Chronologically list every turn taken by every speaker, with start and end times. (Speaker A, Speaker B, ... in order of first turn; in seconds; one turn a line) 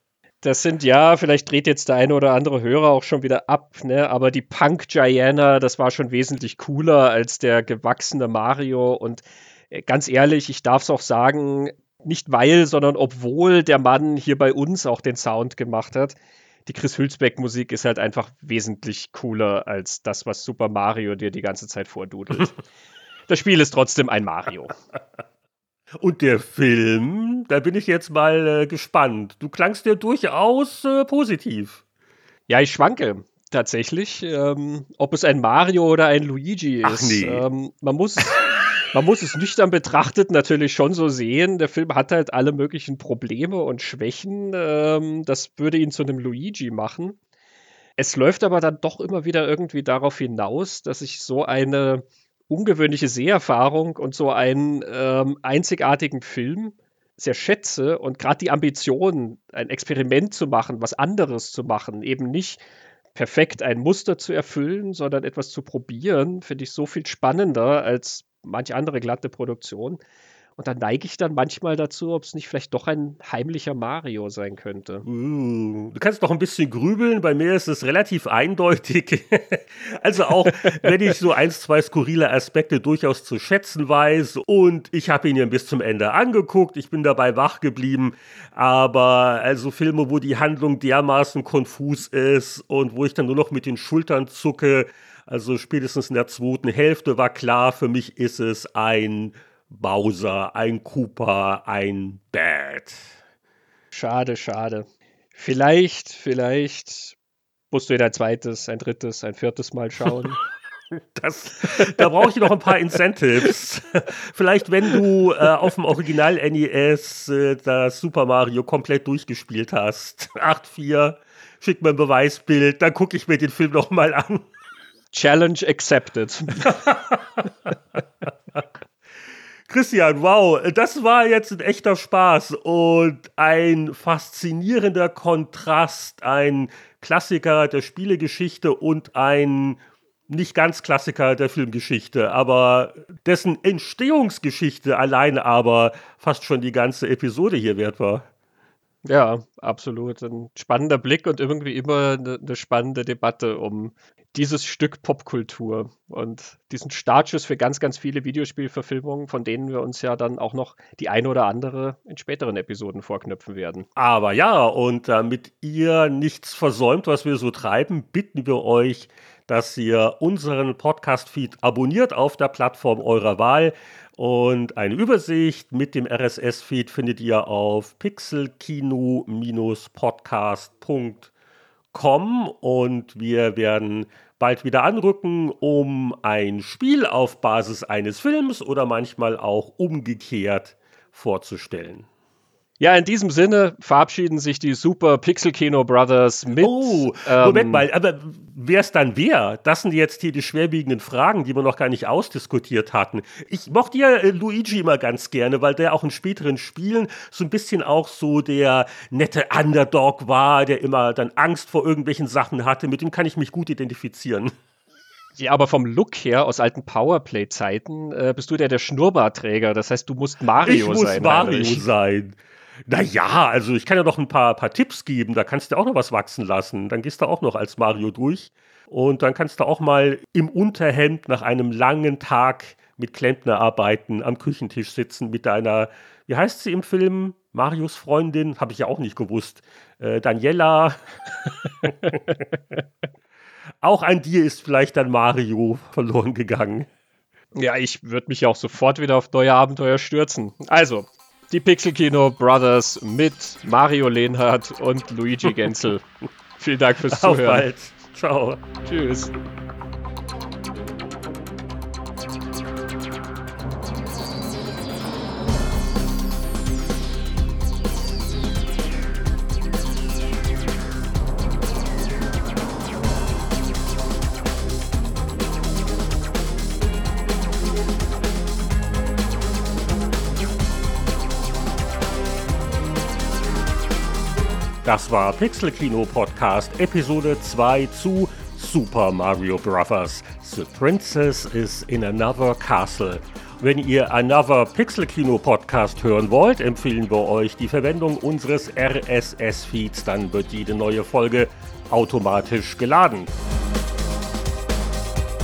Speaker A: 0.4-22.6
Speaker A: 23.3-24.7
Speaker B: 26.0-31.8
Speaker A: 32.5-47.1
Speaker B: 36.8-37.4
Speaker A: 48.0-62.6
Speaker A: 63.1-70.0
Speaker A: 70.6-75.0
Speaker B: 75.0-103.1
Speaker A: 103.9-107.2
Speaker A: 107.7-110.4
Speaker B: 110.9-124.5
Speaker A: 111.8-112.1
Speaker A: 125.1-126.7
Speaker B: 126.6-127.5
Speaker B: 129.7-148.3
Speaker A: 149.0-163.9
Speaker B: 163.9-181.3
Speaker B: 181.9-192.1
Speaker A: 192.8-197.8
Speaker B: 196.6-214.5
Speaker A: 215.4-221.9
Speaker B: 220.6-241.1
Speaker B: 241.8-242.1
Speaker B: 243.8-246.9
Speaker A: 247.5-256.0
Speaker A: 256.6-257.7
Speaker B: 257.1-258.6
Speaker A: 258.8-259.3
Speaker B: 284.8-303.3